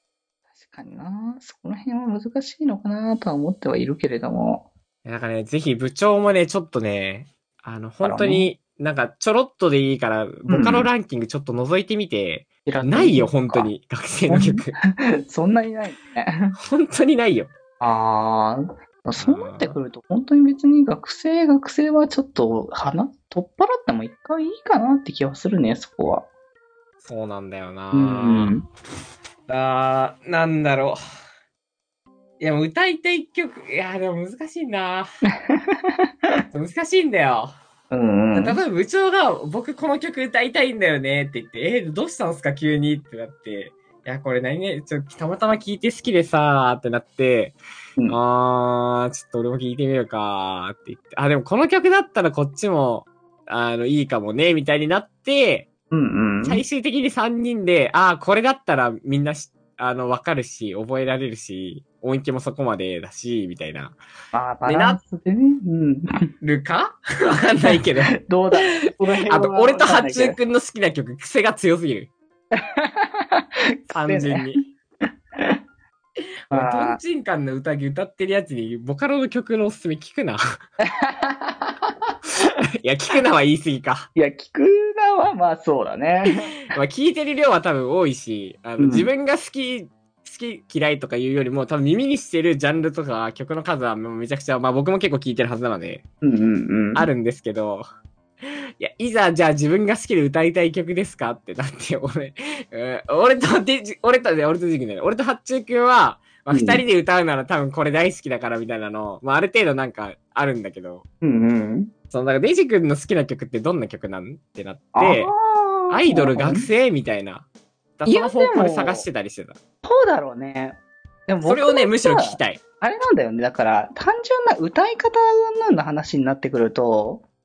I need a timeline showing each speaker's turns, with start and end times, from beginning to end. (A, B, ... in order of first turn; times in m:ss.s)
0:00.5-0:04.7 A
0:05.0-0:14.7 B
0:08.0-0:08.5 A
0:10.5-0:10.9 A
0:12.7-0:13.7 A
0:14.3-0:14.7 A
0:15.2-0:16.5 A
0:16.6-0:17.5 B
0:17.8-0:26.3 A
0:19.2-0:19.8 B
0:27.0-0:28.6 B
0:27.9-0:28.6 A
0:29.5-0:31.0 B
0:32.4-0:35.1 B
0:36.5-0:37.5 B
0:37.9-0:38.6 A
0:38.3-0:47.6 B
0:48.1-0:55.7 B
0:55.9-0:56.6 A
0:56.4-1:04.0 B
1:04.3-1:06.1 A
1:04.6-1:05.0 B
1:06.4-1:08.1 B
1:07.6-1:10.4 A
1:09.3-1:12.1 B
1:12.6-1:14.5 A
1:13.9-1:14.6 B
1:16.5-1:20.4 B
1:16.5-1:17.0 A
1:21.0-1:21.8 A
1:22.8-1:24.1 B
1:24.2-1:26.5 A
1:26.7-1:36.0 B
1:28.8-1:29.1 A
1:36.2-1:37.1 A
1:37.0-1:37.8 B
1:38.4-1:51.0 B
1:46.5-1:46.8 A
1:51.2-1:51.9 A
1:52.1-1:55.3 B
1:54.9-1:56.7 A
1:55.9-1:57.5 B
1:58.0-1:59.6 B
1:58.1-1:59.1 A
1:59.8-2:07.2 A
2:01.4-2:02.6 B